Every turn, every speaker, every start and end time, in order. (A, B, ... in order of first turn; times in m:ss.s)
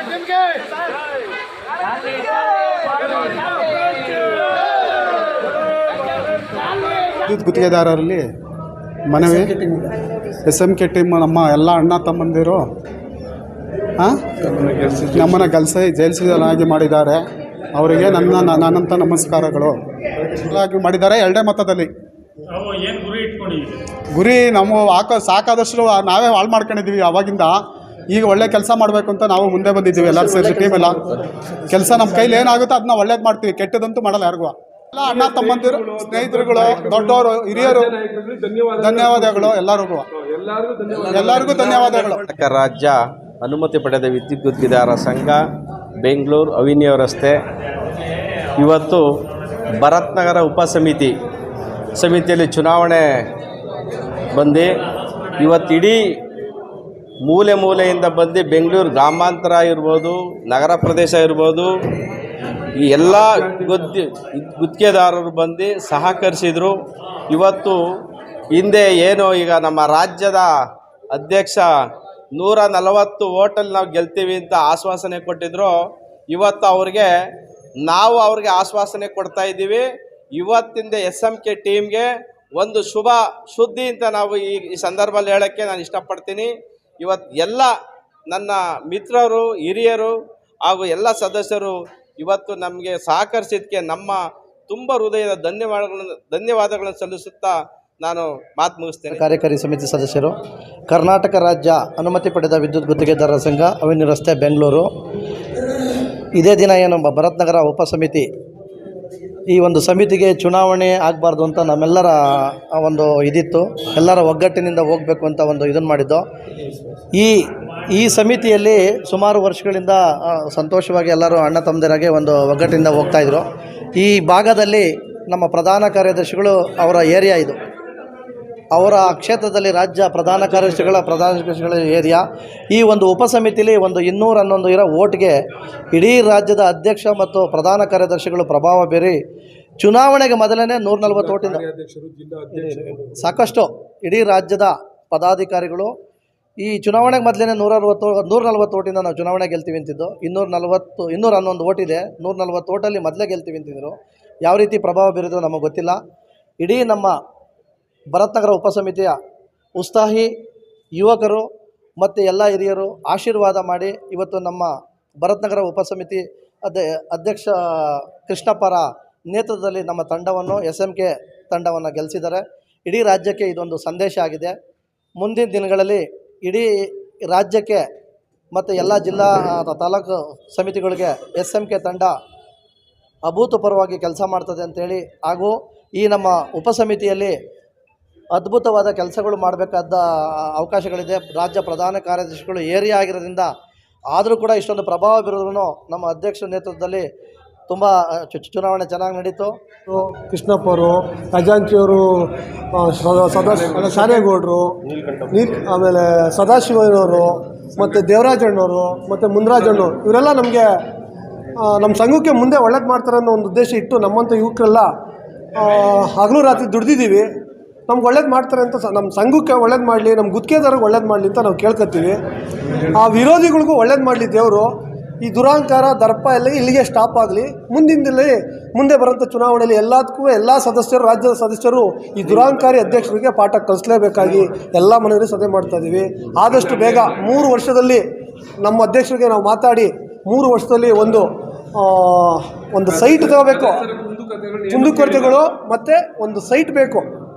0:07.2-0:08.2 A
0:09.1-0:09.6 A
0:10.4-0:12.6 A
0:14.0-0:21.9 A
0:23.0-0:23.3 B
0:24.1-0:27.6 A
0:28.1-0:31.1 A
0:31.7-0:38.0 A
0:35.0-0:39.5 B
0:38.8-0:40.1 A
0:40.1-0:41.8 B
0:41.1-0:42.2 A
0:42.1-0:45.4 C
0:46.0-0:47.4 C
0:48.6-0:49.0 C
0:49.8-0:51.1 C
0:52.0-0:53.3 C
0:54.3-0:54.7 C
0:55.4-0:56.1 C
0:57.2-1:01.7 C
1:02.8-1:06.7 C
1:07.3-1:07.8 C
1:08.5-1:10.5 C
1:11.1-1:11.7 C
1:12.4-1:15.7 C
1:16.3-1:17.1 C
1:17.8-1:19.8 C
1:20.4-1:27.7 C
1:28.3-1:39.2 C
1:39.1-1:40.3 D
1:40.9-1:44.9 D
1:46.4-1:48.3 D
1:49.5-1:56.2 D
1:57.1-2:07.6 D
2:08.7-2:15.3 D
2:15.9-2:19.2 D
2:19.8-2:21.6 D
2:21.0-2:23.2 B
2:22.5-2:25.9 D
2:26.6-2:36.0 D
2:36.6-2:37.1 D
2:38.1-2:39.1 D
2:39.8-2:40.3 D
2:41.0-2:41.4 D
2:42.0-2:54.5 D
2:55.2-2:57.8 D
2:58.5-3:02.1 D
3:03.3-3:07.4 D
3:08.3-3:13.5 D
3:14.1-3:17.1 D
3:17.7-3:19.5 D
3:19.9-3:30.7 E
3:31.6-3:34.9 E
3:35.5-3:37.3 E
3:37.9-3:42.2 E
3:42.9-3:58.0 E
3:56.5-3:57.4 B
3:58.6-4:03.9 E
4:02.9-4:05.4 B
4:04.7-4:07.1 E